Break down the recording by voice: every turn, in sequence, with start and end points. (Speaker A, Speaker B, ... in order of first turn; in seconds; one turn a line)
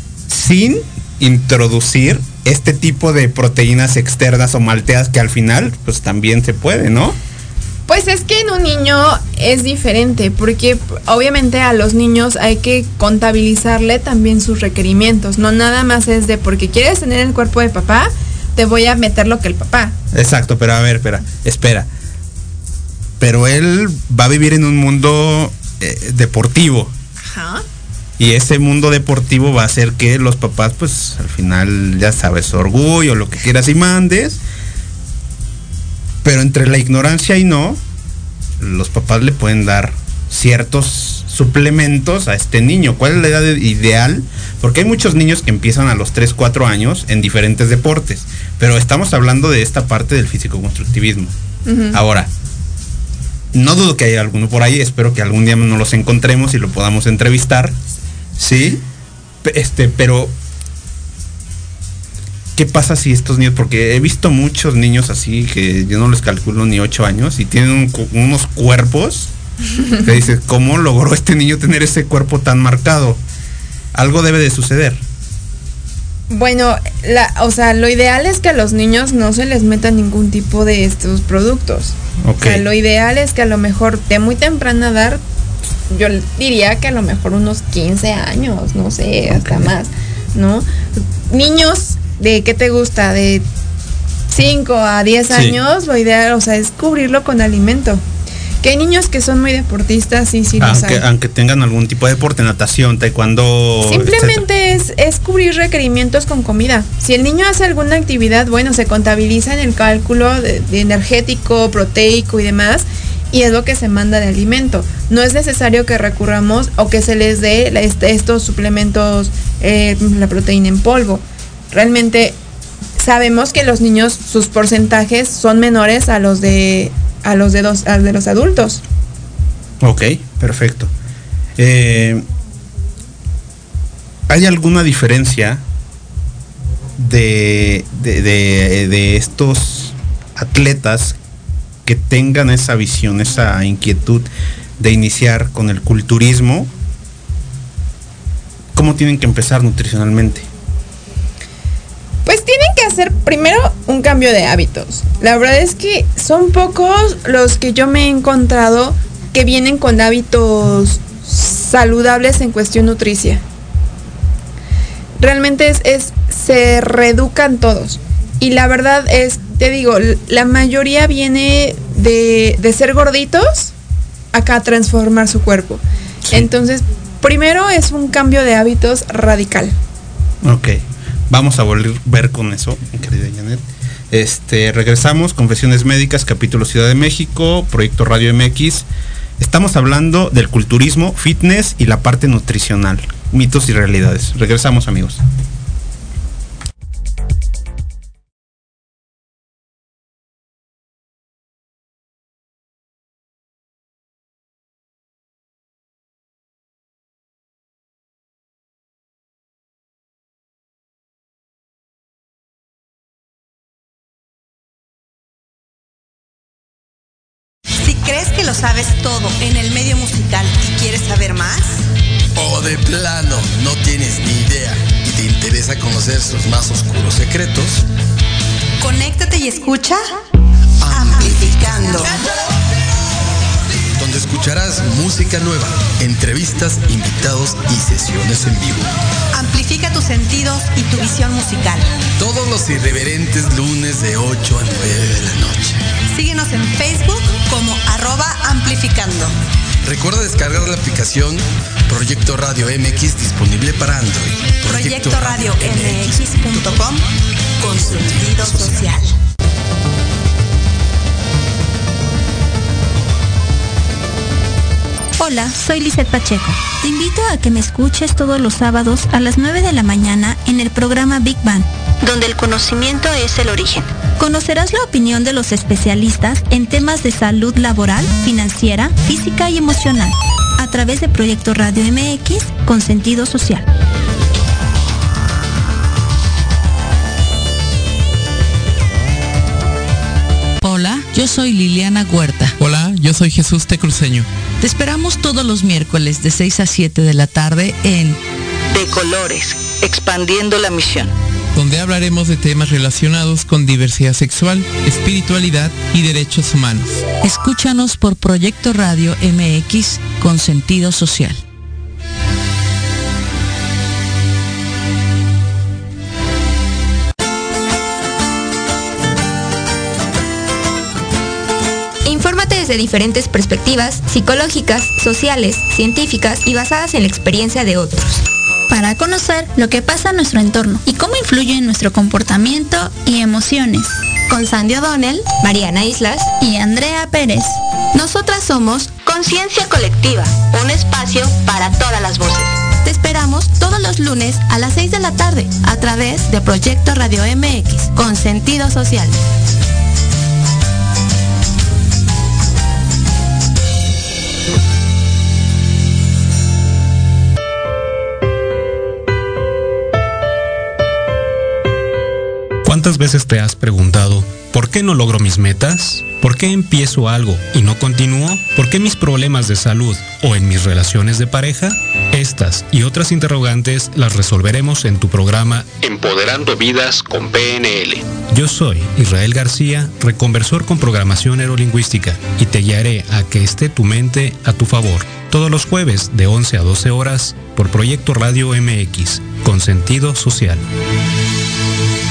Speaker A: 0.3-7.2
Speaker B: 7.9-19.9
Speaker A: 20.1-21.9
Speaker A: 23.2-26.9
Speaker B: 27.2-27.6
Speaker A: 28.2-34.4
Speaker A: 36.2-37.8
Speaker A: 38.6-51.3
Speaker B: 51.6-52.0
Speaker A: 51.9-52.3
Speaker A: 53.5-57.8
Speaker A: 58.4-58.8
Speaker A: 59.4-60.3
Speaker A: 62.5-69.3
Speaker A: 70.0-73.2
Speaker A: 73.9-75.0
Speaker B: 76.3-85.2
Speaker A: 82.2-82.6
Speaker B: 85.9-93.4
Speaker A: 89.3-89.7
Speaker B: 94.3-98.0
Speaker A: 95.3-95.6
Speaker B: 98.6-101.0
Speaker A: 100.6-104.4
Speaker B: 103.8-122.3
Speaker B: 123.0-128.8
Speaker A: 129.8-130.9
Speaker A: 131.6-132.2
Speaker A: 134.3-135.6
Speaker A: 137.0-141.2
Speaker A: 141.8-144.2
Speaker A: 144.8-146.7
Speaker A: 148.7-150.5
Speaker B: 152.2-163.4
Speaker B: 165.2-173.7
Speaker B: 174.3-179.7
Speaker A: 180.4-188.8
Speaker A: 189.4-195.2
Speaker C: 217.8-221.8
Speaker D: 222.3-227.8
Speaker C: 228.8-230.1
Speaker D: 230.8-232.2
Speaker C: 230.9-232.2
Speaker D: 233.9-238.9
Speaker C: 239.3-241.9
Speaker D: 242.2-245.8
Speaker C: 246.1-249.3
Speaker D: 249.8-256.4
Speaker C: 254.6-257.0
Speaker C: 257.6-259.1
Speaker D: 258.5-258.7
Speaker E: 265.2-283.6
Speaker F: 290.6-292.5
Speaker G: 292.6-294.3
Speaker F: 294.6-298.2
Speaker H: 298.7-301.1
Speaker G: 301.5-307.0
Speaker F: 307.2-311.4
Speaker I: 322.0-328.2
Speaker E: 328.7-334.0
Speaker I: 334.3-336.3
Speaker E: 336.4-337.6
Speaker I: 337.9-349.1
Speaker J: 362.6-390.6